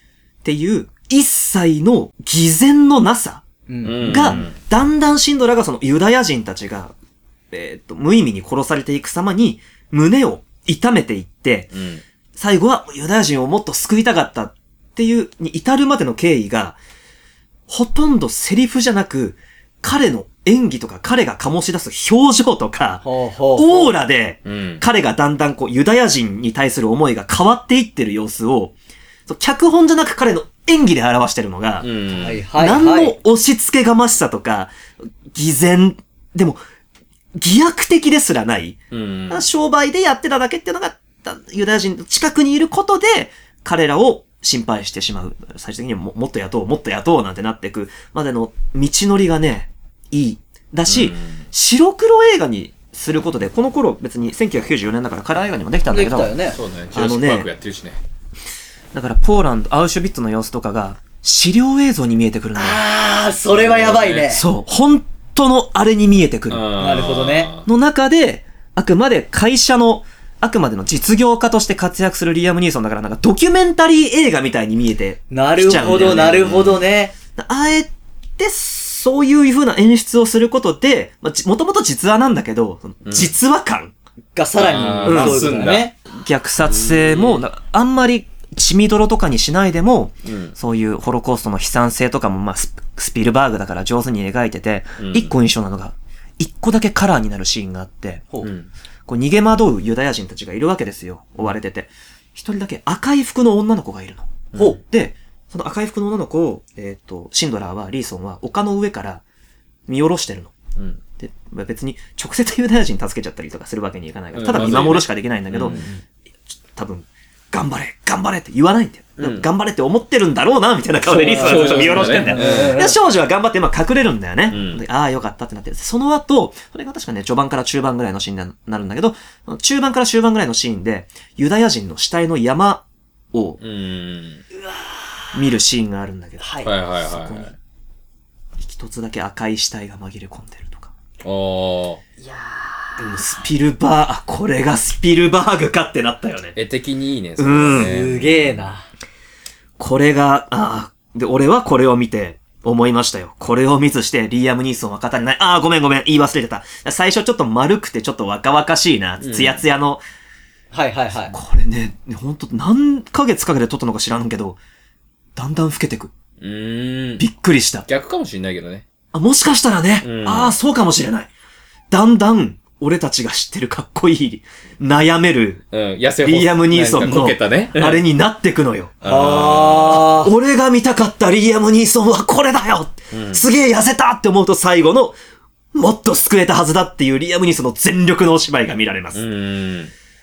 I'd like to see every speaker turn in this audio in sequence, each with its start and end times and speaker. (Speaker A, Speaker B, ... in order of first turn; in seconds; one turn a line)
Speaker A: 0.4-3.4
Speaker B: 3.7-4.5
Speaker C: 3.8-4.6
Speaker A: 4.0-6.9
Speaker A: 7.5-11.7
Speaker C: 11.7-12.0
Speaker A: 12.4-16.8
Speaker A: 17.7-28.8
Speaker B: 23.0-23.9
Speaker C: 24.4-24.8
Speaker A: 29.3-31.9
Speaker C: 31.8-32.4
Speaker B: 32.2-33.1
Speaker A: 32.5-34.7
Speaker A: 35.3-36.6
Speaker A: 37.4-56.4
Speaker C: 38.9-39.4
Speaker C: 50.9-51.4
Speaker B: 55.9-56.6
Speaker C: 56.5-58.0
Speaker A: 56.9-57.5
Speaker A: 58.9-62.8
Speaker B: 62.6-64.4
Speaker C: 63.5-64.3
Speaker A: 64.3-66.7
Speaker C: 66.5-67.7
Speaker B: 66.8-67.5
Speaker A: 67.6-76.5
Speaker B: 75.3-77.1
Speaker C: 75.7-76.8
Speaker A: 77.4-83.9
Speaker C: 83.0-83.3
Speaker B: 84.4-85.9
Speaker C: 84.6-85.9
Speaker A: 85.0-98.2
Speaker C: 86.7-87.4
Speaker C: 90.3-90.5
Speaker C: 95.0-95.3
Speaker C: 98.4-98.7
Speaker A: 99.1-109.2
Speaker C: 104.5-104.8
Speaker B: 104.5-104.8
Speaker A: 109.9-110.5
Speaker A: 111.2-115.8
Speaker C: 114.3-115.8
Speaker B: 115.6-116.0
Speaker A: 116.7-133.6
Speaker C: 119.2-119.5
Speaker C: 121.0-122.8
Speaker B: 121.1-123.0
Speaker C: 124.5-124.8
Speaker C: 133.6-134.4
Speaker A: 135.3-137.5
Speaker B: 136.4-136.7
Speaker C: 136.6-137.5
Speaker A: 138.6-140.9
Speaker C: 141.2-142.0
Speaker B: 142.2-143.0
Speaker A: 143.0-146.6
Speaker C: 146.6-148.7
Speaker A: 147.4-147.9
Speaker B: 147.7-148.9
Speaker A: 149.8-160.0
Speaker C: 159.2-159.6
Speaker B: 160.7-161.4
Speaker A: 161.3-164.6
Speaker A: 165.4-166.1
Speaker C: 166.4-167.2
Speaker A: 167.2-167.9
Speaker C: 167.9-168.9
Speaker A: 169.1-171.3
Speaker C: 170.0-170.5
Speaker A: 171.9-175.6
Speaker C: 175.7-178.0
Speaker A: 176.2-185.2
Speaker C: 179.0-180.1
Speaker B: 179.0-180.3
Speaker C: 183.1-183.4
Speaker A: 185.7-189.2
Speaker C: 189.1-189.9